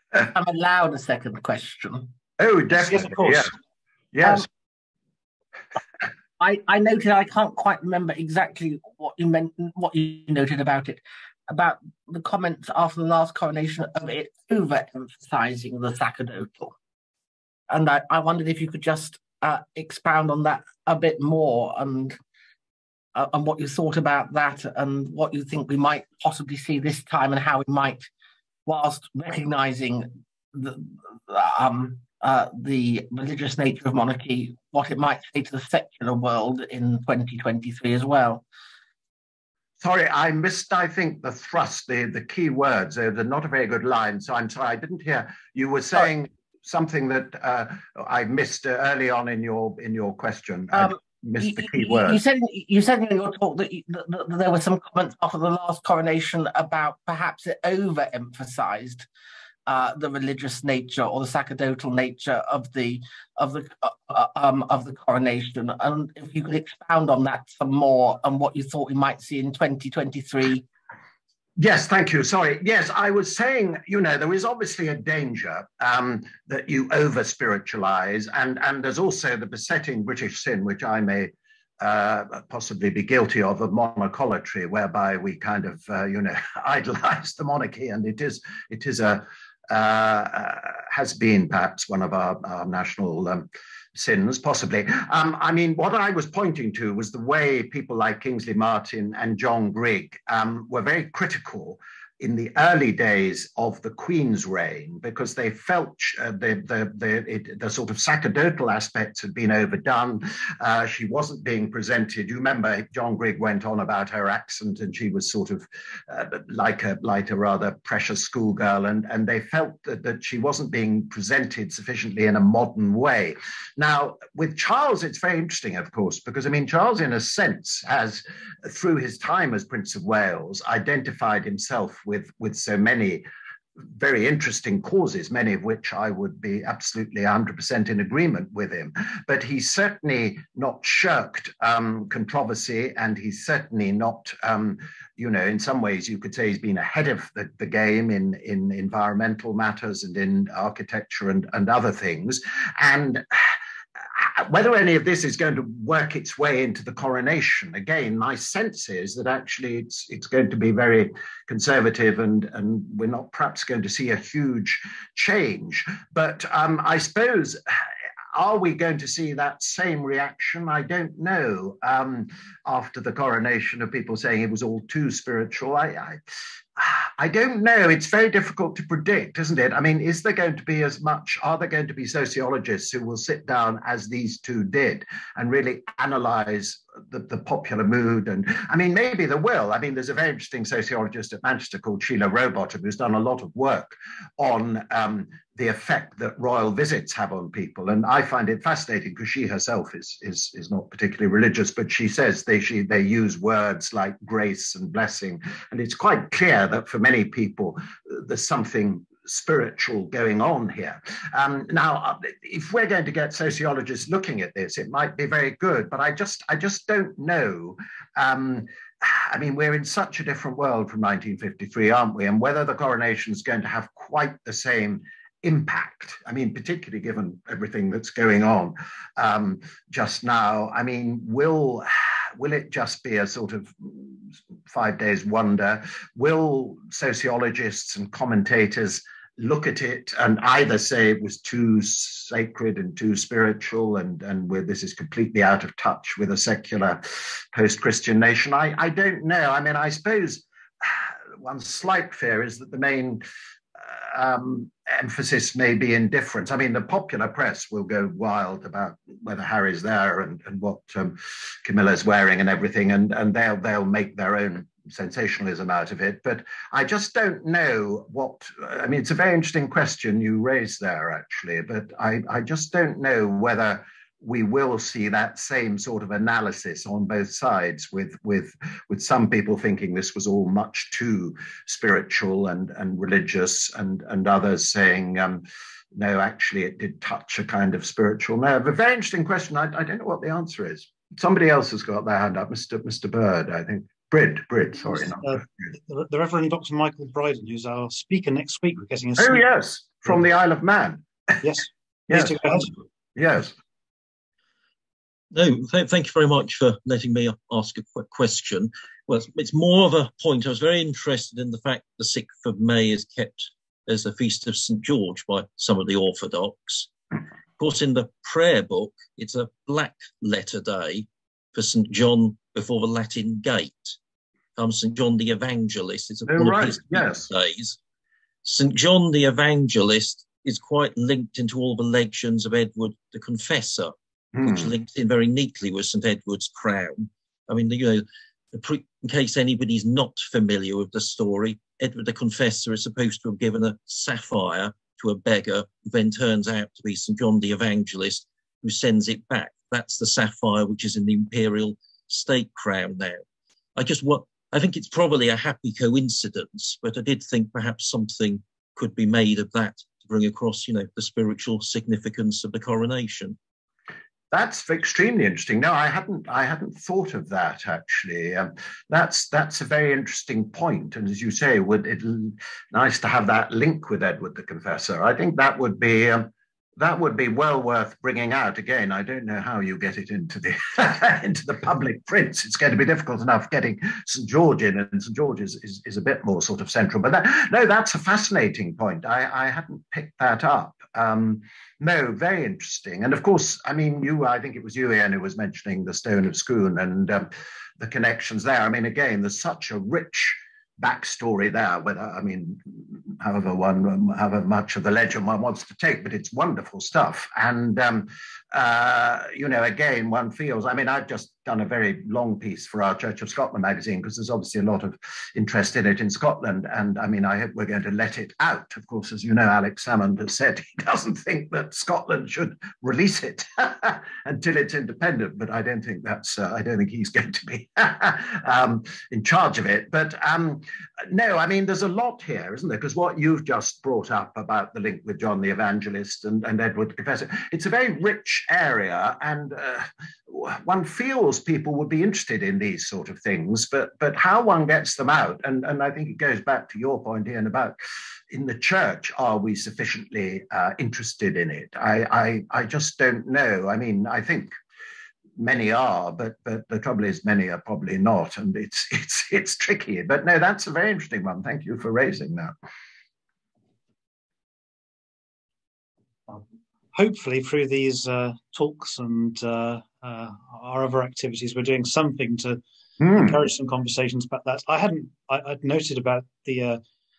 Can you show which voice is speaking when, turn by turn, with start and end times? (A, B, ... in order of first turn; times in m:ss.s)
0:00.2-0:02.1 A
0:02.4-0:03.5 B
0:02.8-0:03.5 C
0:04.1-0:04.5 B
0:06.4-0:16.7 A
0:17.7-0:22.2 A
0:23.1-0:28.1 A
0:28.6-0:38.4 A
0:39.8-0:52.2 B
0:50.7-0:59.1 A
0:59.7-1:10.6 A
1:11.6-2:13.3 B
2:13.8-2:47.8 B
2:48.3-2:56.2 B
2:56.8-4:13.2 B
4:13.8-4:55.4 B
4:54.9-4:59.4 C
4:59.2-5:01.4 B
5:01.4-5:02.7 C
5:02.1-5:03.5 B
5:05.3-5:16.9 D
5:17.6-5:24.0 D
5:24.6-5:27.8 D
5:26.3-5:27.3 B
5:28.4-5:53.2 D
5:34.4-5:34.7 B
5:53.7-6:03.4 D
6:04.3-7:27.8 B
7:28.3-7:34.5 B
7:35.4-7:42.5 B
7:46.9-7:56.8 C
7:53.0-7:53.3 B